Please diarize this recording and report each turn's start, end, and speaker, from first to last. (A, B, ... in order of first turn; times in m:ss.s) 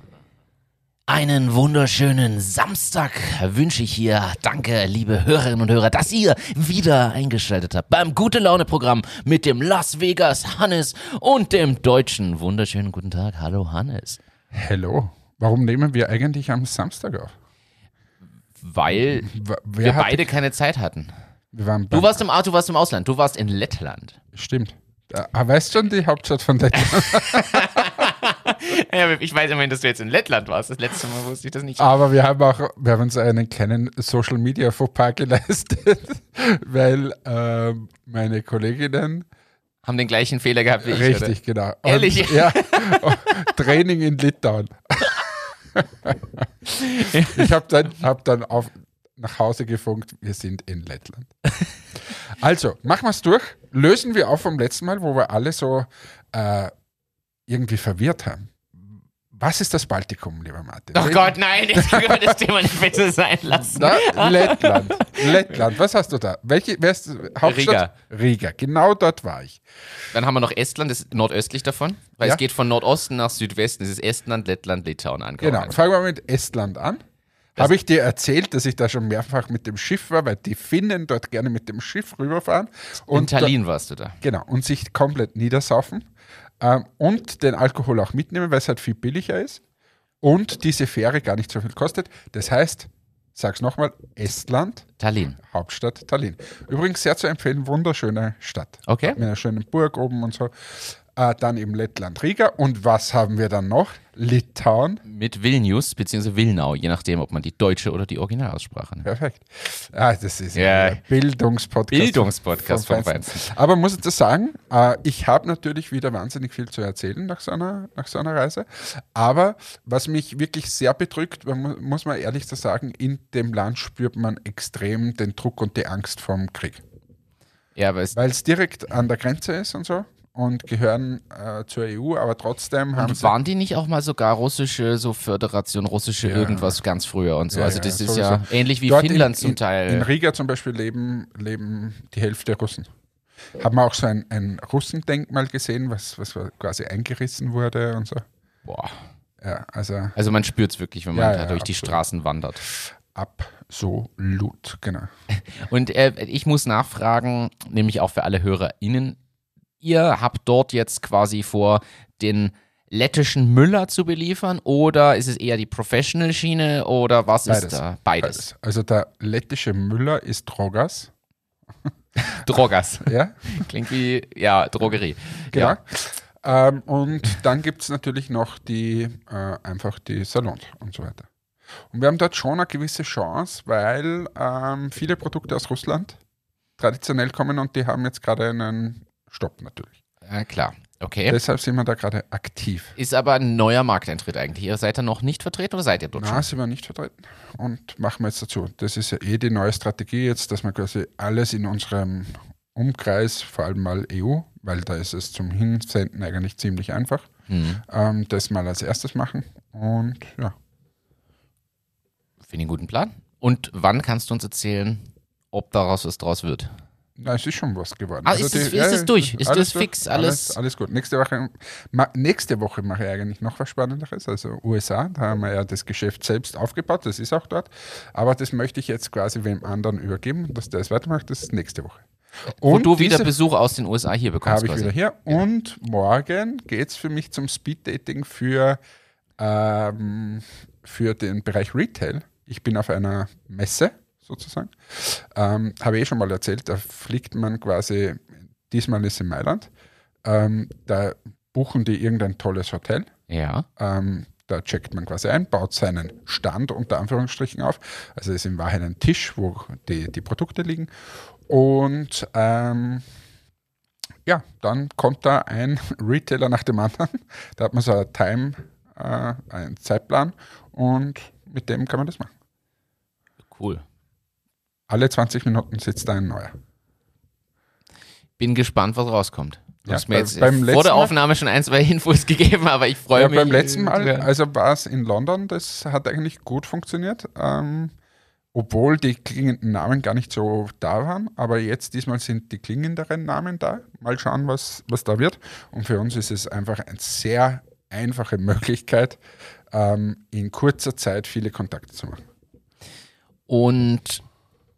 0:01.1-0:14.2 A
0:14.5-0:17.3 B
0:18.6-0:21.1 A
0:19.3-0:20.2 B
0:21.5-0:22.2 B
0:21.9-0:24.2 A
0:24.3-0:28.0 B
0:26.8-0:31.9 A
0:31.8-0:39.3 B
0:39.8-0:43.3 A
0:40.8-0:51.3 B
0:46.7-0:47.5 A
0:52.1-0:56.7 B
0:57.5-0:58.7 B
0:59.3-1:02.4 B
1:00.9-1:05.7 A
1:03.5-1:09.6 B
1:07.4-1:07.9 A
1:10.1-1:15.8 A
1:15.4-1:17.0 B
1:17.6-1:23.5 B
1:23.1-1:24.2 A
1:24.2-1:26.1 B
1:26.6-1:29.6 B
1:30.2-1:34.9 B
1:35.0-1:35.4 A
1:35.4-1:45.0 B
1:38.9-1:39.2 A
1:45.0-1:49.1 A
1:49.0-2:06.8 B
1:50.5-1:51.0 A
1:51.9-1:53.4 A
2:07.8-2:08.1 A
2:08.1-2:13.3 B
2:13.0-2:20.1 A
2:16.2-2:16.8 B
2:17.5-2:22.9 B
2:23.6-2:28.2 B
2:28.6-2:28.9 A
2:29.4-2:30.1 B
2:30.2-2:32.6 A
2:31.1-2:32.0 B
2:32.7-2:35.1 B
2:35.3-2:39.2 A
2:39.8-2:48.4 A
2:47.4-2:51.1 B
2:52.2-2:55.8 A
2:53.0-2:53.5 B
2:55.5-3:01.3 B
3:01.9-3:06.2 B
3:06.8-3:10.0 B
3:10.2-3:11.4 A
3:11.3-3:12.9 B
3:13.0-3:16.4 A
3:16.2-3:27.3 B
3:27.5-3:27.8 A
3:27.9-3:30.5 B
3:32.5-3:36.7 A
3:37.2-3:52.0 B
3:38.2-3:40.6 A
3:52.6-3:53.3 B
3:52.6-3:54.9 A
3:54.4-3:58.8 B
3:59.4-4:09.7 B
4:10.2-4:13.1 B
4:13.3-4:13.6 A
4:13.8-4:20.9 B
4:21.5-4:23.0 B
4:24.2-4:32.3 B
4:33.5-4:33.8 A
4:34.9-4:36.5 B
4:38.4-4:44.3 A
4:39.8-4:41.1 B
4:43.1-4:47.9 B
4:48.5-4:59.2 B
4:59.7-5:02.2 B
5:03.5-5:04.2 A